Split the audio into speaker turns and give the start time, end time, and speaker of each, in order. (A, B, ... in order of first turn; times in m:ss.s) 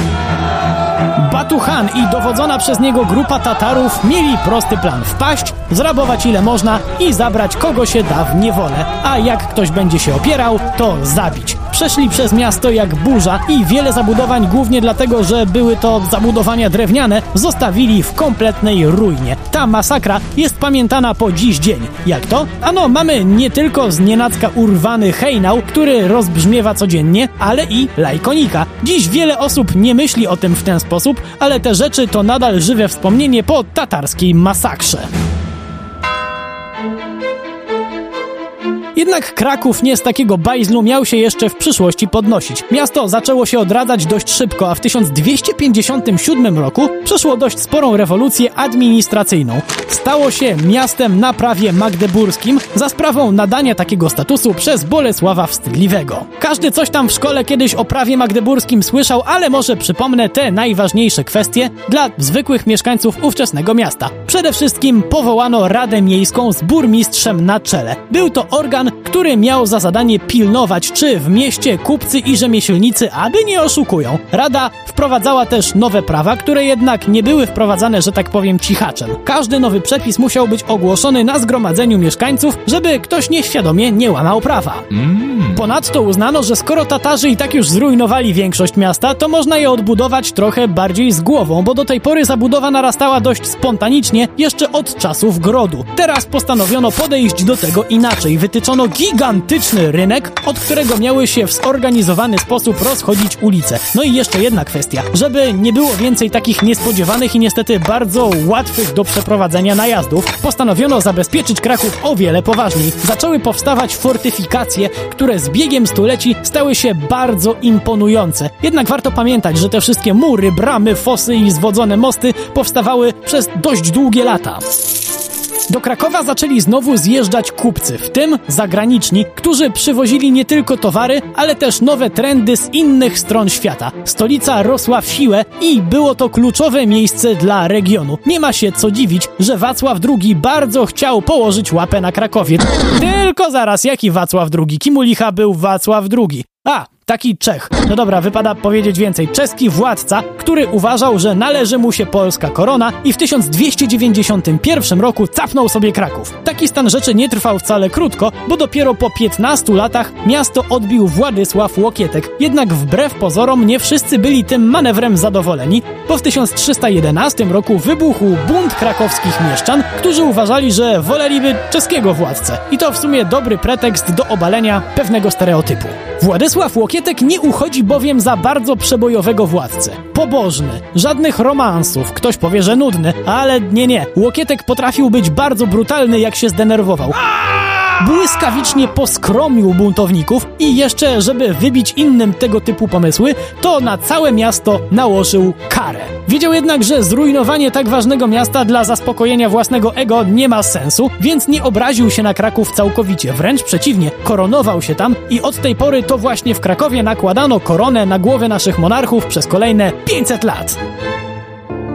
0:01.1-0:35.1 A
0:38.9-2:04.6 A
2:05.7-3:30.8 A